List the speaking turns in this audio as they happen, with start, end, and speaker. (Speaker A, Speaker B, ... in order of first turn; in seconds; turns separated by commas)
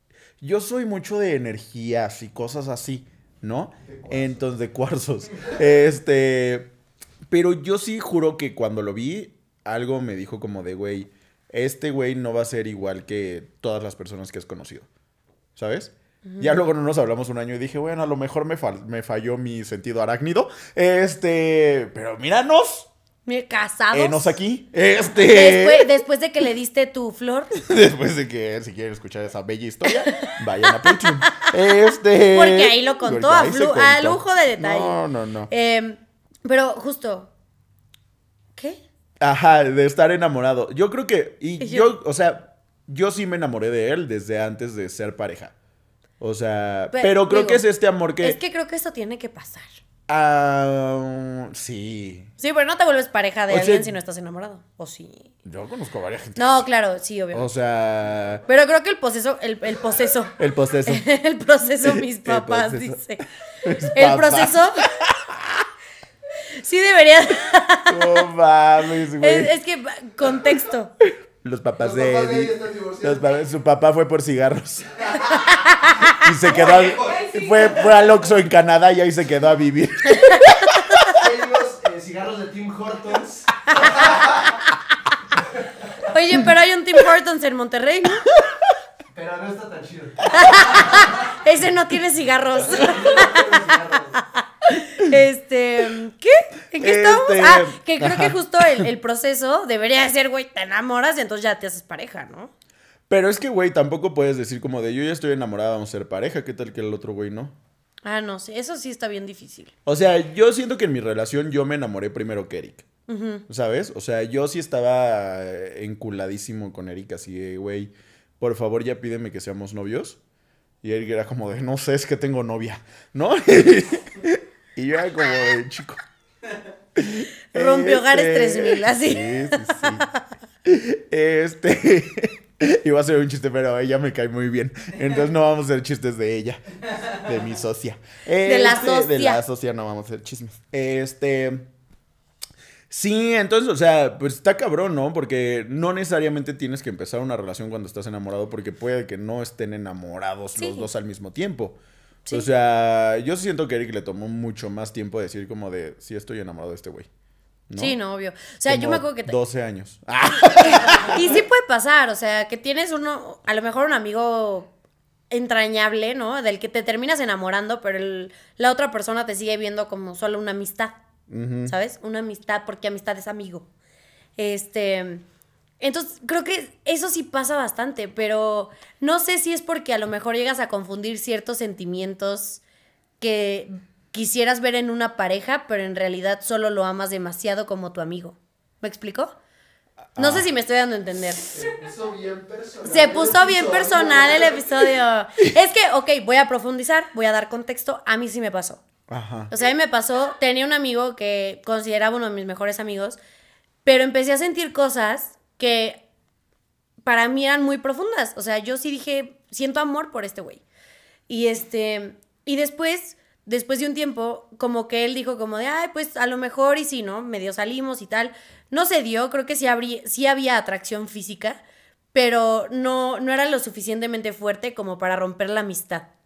Speaker A: 0.4-6.7, Speaker B: 4.0-4.3, Speaker A: 7.3-14.9, Speaker A: 15.6-22.9, Speaker C: 16.3-16.6, Speaker C: 23.3-24.3, Speaker A: 23.9-25.9, Speaker C: 25.3-27.6, Speaker A: 27.6-35.5, Speaker C: 30.2-31.5, Speaker C: 32.3-37.3, Speaker A: 39.2-45.5, Speaker C: 41.6-41.9, Speaker A: 46.2-48.4, Speaker C: 46.9-47.6, Speaker C: 48.2-49.8, Speaker A: 50.1-52.3, Speaker C: 52.4-55.3, Speaker A: 53.5-53.9, Speaker A: 55.5-56.6, Speaker C: 56.4-57.5, Speaker A: 57.3-58.4, Speaker C: 58.5-60.4, Speaker A: 60.4-61.0, Speaker C: 60.9-63.2, Speaker A: 61.8-63.0, Speaker A: 63.6-65.7, Speaker C: 63.9-64.8, Speaker C: 66.5-68.2, Speaker A: 67.9-69.5, Speaker C: 69.2-70.9, Speaker A: 71.4-75.0, Speaker B: 71.8-73.2, Speaker C: 75.5-76.1, Speaker A: 76.2-81.0, Speaker B: 76.5-78.0, Speaker C: 80.1-81.1, Speaker B: 81.1-84.4, Speaker C: 86.1-88.3, Speaker B: 89.1-91.1, Speaker C: 90.3-93.6, Speaker B: 92.7-94.2, Speaker C: 94.2-102.5, Speaker A: 96.8-98.9, Speaker A: 103.1-107.5, Speaker C: 108.0-109.7, Speaker A: 109.9-112.9, Speaker C: 113.1-113.4, Speaker A: 113.5-120.2, Speaker A: 120.8-126.0, Speaker A: 127.0-130.1, Speaker C: 127.5-130.2, Speaker A: 130.7-141.7, Speaker C: 138.4-139.4, Speaker A: 142.9-151.8, Speaker C: 150.6-150.9, Speaker A: 152.3-157.1, Speaker A: 157.7-158.0, Speaker C: 157.8-159.3, Speaker A: 158.7-161.4, Speaker C: 160.5-164.7, Speaker C: 165.3-171.0, Speaker A: 171.3-171.7, Speaker C: 171.7-173.7, Speaker C: 174.4-175.2, Speaker C: 175.8-182.6, Speaker C: 183.2-189.3, Speaker A: 190.1-190.5, Speaker C: 190.2-191.5, Speaker B: 191.5-194.8, Speaker C: 192.8-198.8, Speaker A: 199.1-199.5, Speaker C: 199.5-203.2, Speaker C: 203.8-206.0, Speaker C: 207.0-210.6, Speaker C: 211.3-221.6, Speaker C: 222.1-226.1